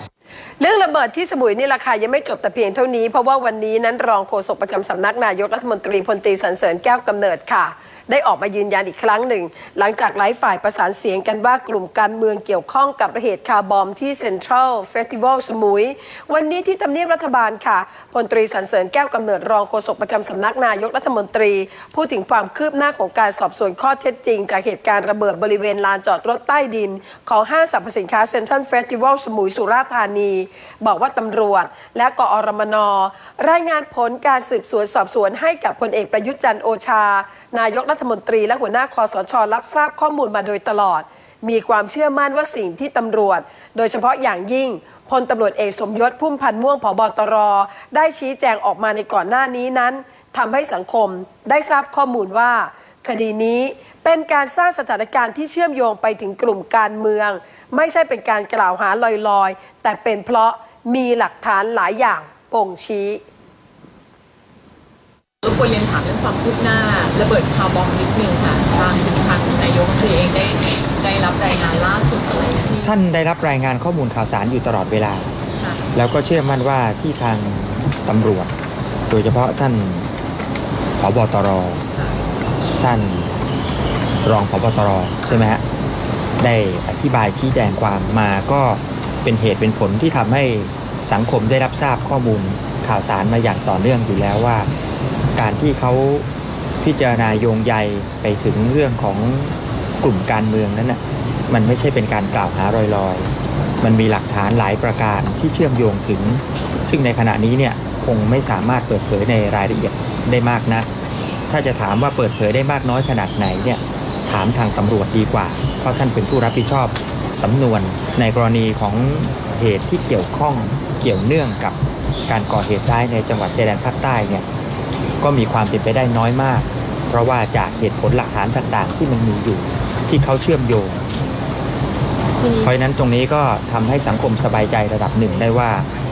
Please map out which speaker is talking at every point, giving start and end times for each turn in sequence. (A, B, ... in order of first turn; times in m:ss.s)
0:00.6-1:03.2 A
1:05.4-1:13.0 B
1:12.8-1:15.3 C
1:15.6-1:15.9 B
1:16.0-1:18.5 C
1:19.1-1:20.1 C
1:21.0-1:21.8 C
1:22.8-1:23.3 C
1:24.2-1:25.6 C
1:26.4-1:34.7 C
1:35.4-1:36.3 C
1:36.8-1:43.3 C
1:43.8-1:50.9 C
1:51.5-2:04.5 C
2:05.2-2:11.0 C
2:12.4-2:12.7 B
2:12.6-2:15.9 C